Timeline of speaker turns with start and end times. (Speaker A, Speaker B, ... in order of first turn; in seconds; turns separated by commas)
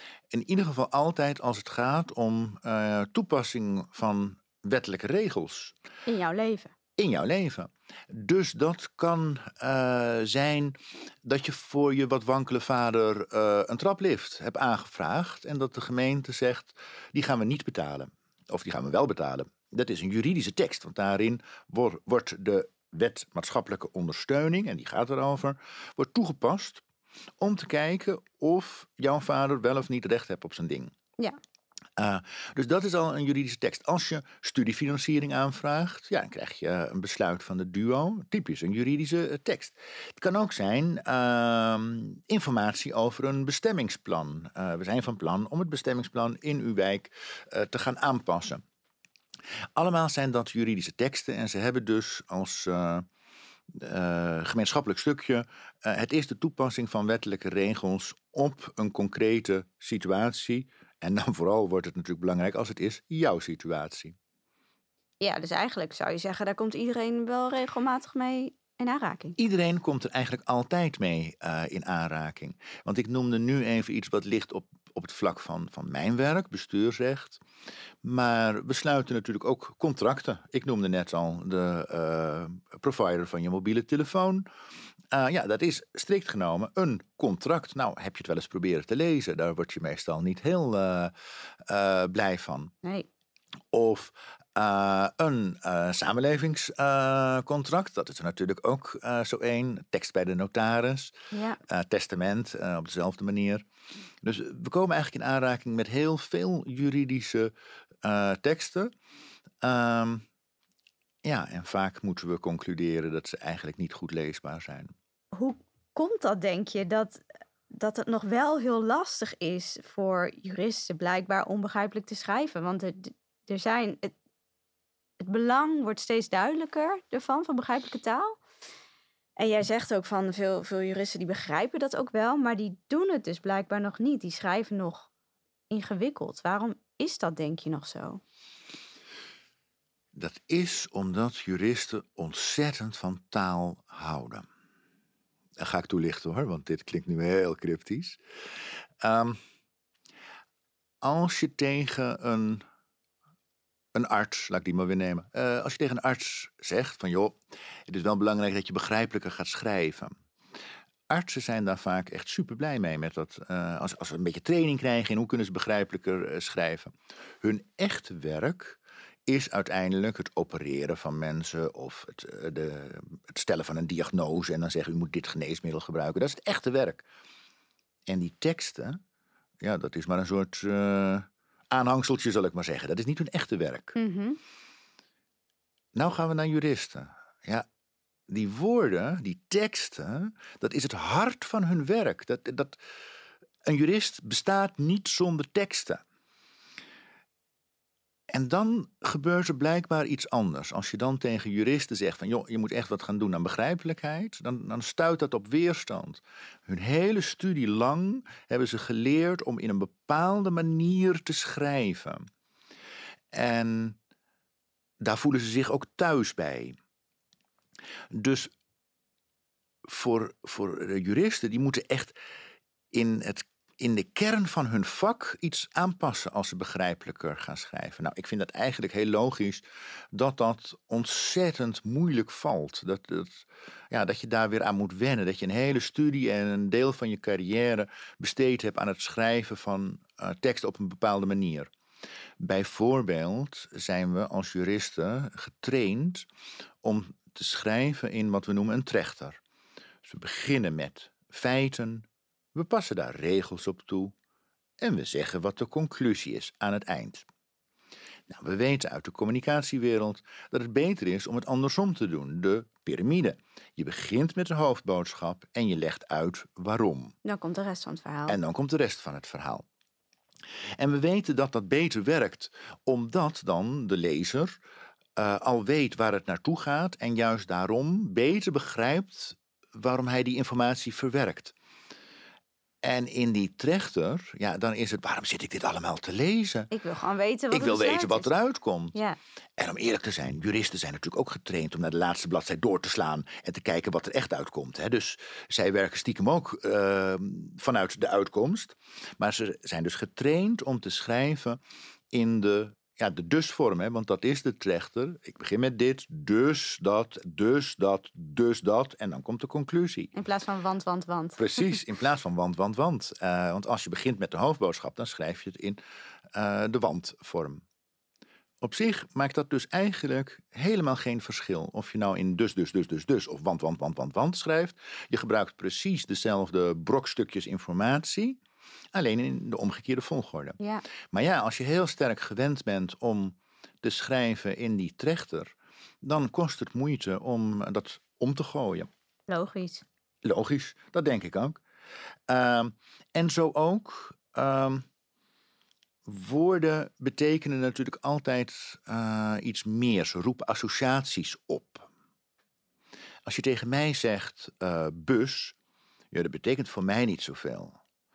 Speaker A: 0.3-5.7, Speaker B: 6.1-6.7, Speaker A: 7.0-26.8, Speaker A: 27.4-30.9, Speaker A: 32.0-48.6, Speaker A: 49.8-53.1, Speaker A: 53.7-64.2, Speaker B: 65.2-69.4, Speaker A: 69.4-77.4, Speaker A: 78.0-84.5, Speaker A: 85.1-91.1, Speaker A: 91.7-92.7, Speaker A: 93.7-103.6, Speaker B: 101.3-101.6, Speaker A: 104.2-107.5, Speaker A: 108.0-108.9, Speaker A: 109.6-110.2, Speaker A: 111.2-114.9, Speaker B: 115.3-124.1, Speaker B: 125.2-128.4, Speaker B: 129.4-135.1, Speaker B: 135.7-138.2, Speaker A: 140.2-144.5, Speaker A: 145.6-148.2, Speaker A: 149.0-149.4, Speaker A: 151.0-152.6, Speaker A: 153.9-157.4, Speaker A: 157.9-160.2, Speaker A: 161.1-177.0, Speaker A: 178.1-179.0, Speaker A: 179.6-183.9, Speaker B: 183.9-184.4, Speaker A: 185.9-187.7, Speaker A: 188.3-192.8, Speaker A: 193.6-196.0, Speaker A: 198.3-212.3, Speaker A: 213.3-214.0, Speaker A: 215.0-216.8, Speaker A: 218.1-218.5, Speaker A: 219.8-222.2, Speaker A: 222.9-241.7, Speaker A: 242.4-246.3, Speaker A: 246.8-249.4, Speaker A: 250.0-254.1, Speaker A: 254.8-257.3, Speaker A: 258.3-267.1, Speaker B: 267.2-268.4, Speaker A: 268.3-269.6, Speaker A: 270.8-274.6, Speaker A: 275.2-281.5, Speaker A: 282.8-286.7, Speaker B: 286.7-288.3, Speaker A: 287.5-289.0, Speaker A: 289.6-301.6, Speaker A: 302.1-310.1, Speaker B: 310.1-311.4, Speaker A: 311.4-315.8, Speaker A: 316.3-317.6, Speaker A: 318.6-328.4, Speaker A: 328.9-330.6, Speaker A: 331.1-338.9, Speaker B: 339.3-339.8, Speaker A: 340.2-341.6, Speaker A: 342.3-344.9, Speaker A: 346.1-351.9, Speaker A: 353.3-355.6, Speaker A: 356.1-357.8